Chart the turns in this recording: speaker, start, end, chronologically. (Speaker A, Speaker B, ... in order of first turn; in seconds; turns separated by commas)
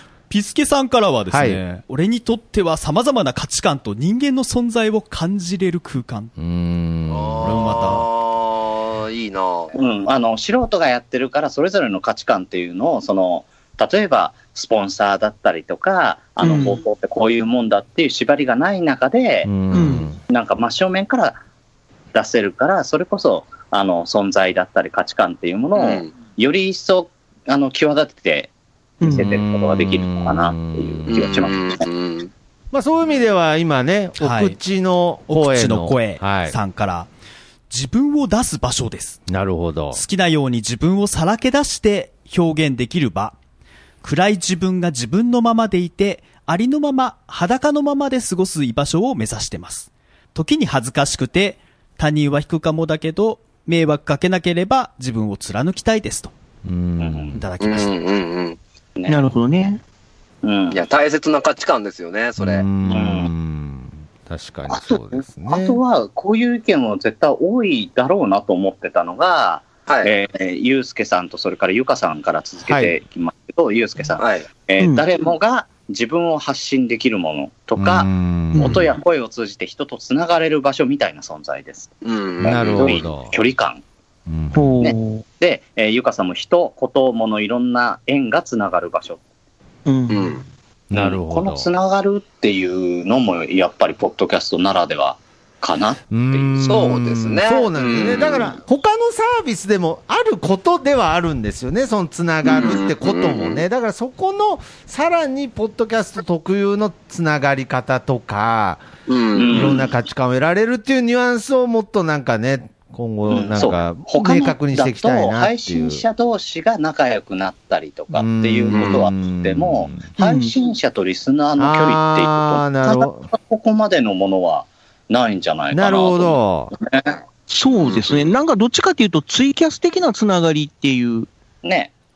Speaker A: 0.3-6.3, Speaker B: 1.3-1.6, Speaker B: 6.4-8.0, Speaker C: 7.1-9.8, Speaker A: 7.4-8.1, Speaker D: 9.7-19.5, Speaker E: 16.4-16.8, Speaker B: 19.4-20.2, Speaker E: 19.7-20.1, Speaker D: 20.3-21.4, Speaker D: 22.1-28.5, Speaker C: 25.8-26.1, Speaker E: 29.0-29.2, Speaker D: 29.0-31.9, Speaker B: 29.1-31.2, Speaker C: 31.1-32.3, Speaker B: 32.7-36.5, Speaker A: 34.2-34.6, Speaker A: 35.3-37.1, Speaker A: 37.7-39.2, Speaker B: 39.3-40.0, Speaker A: 39.9-43.3, Speaker A: 44.0-56.3, Speaker B: 56.6-57.4, Speaker D: 57.0-57.4, Speaker A: 57.3-57.9, Speaker C: 57.6-58.6, Speaker E: 59.1-59.8, Speaker D: 60.4-60.8, Speaker C: 60.7-62.6, Speaker B: 62.4-65.8, Speaker D: 62.9-63.3, Speaker D: 64.7-83.8, Speaker C: 69.9-70.1, Speaker B: 72.7-73.0, Speaker C: 74.2-74.4, Speaker E: 74.8-75.0, Speaker B: 77.8-78.9, Speaker E: 78.5-78.9, Speaker C: 82.0-83.0, Speaker B: 82.4-83.3, Speaker B: 84.3-84.8, Speaker E: 84.5-85.2, Speaker D: 84.8-89.2, Speaker E: 89.8-90.4, Speaker C: 90.1-90.4, Speaker B: 90.9-91.7, Speaker D: 90.9-96.8, Speaker B: 96.1-108.9, Speaker C: 96.6-98.5, Speaker C: 102.4-103.6, Speaker C: 109.1-109.8, Speaker D: 109.3-109.9, Speaker B: 109.5-116.0, Speaker D: 113.3-127.1, Speaker B: 118.1-120.0, Speaker C: 118.7-119.0, Speaker E: 120.2-120.5, Speaker B: 121.6-123.3, Speaker B: 125.7-126.7, Speaker E: 127.5-131.3, Speaker C: 127.9-128.2, Speaker D: 131.6-131.9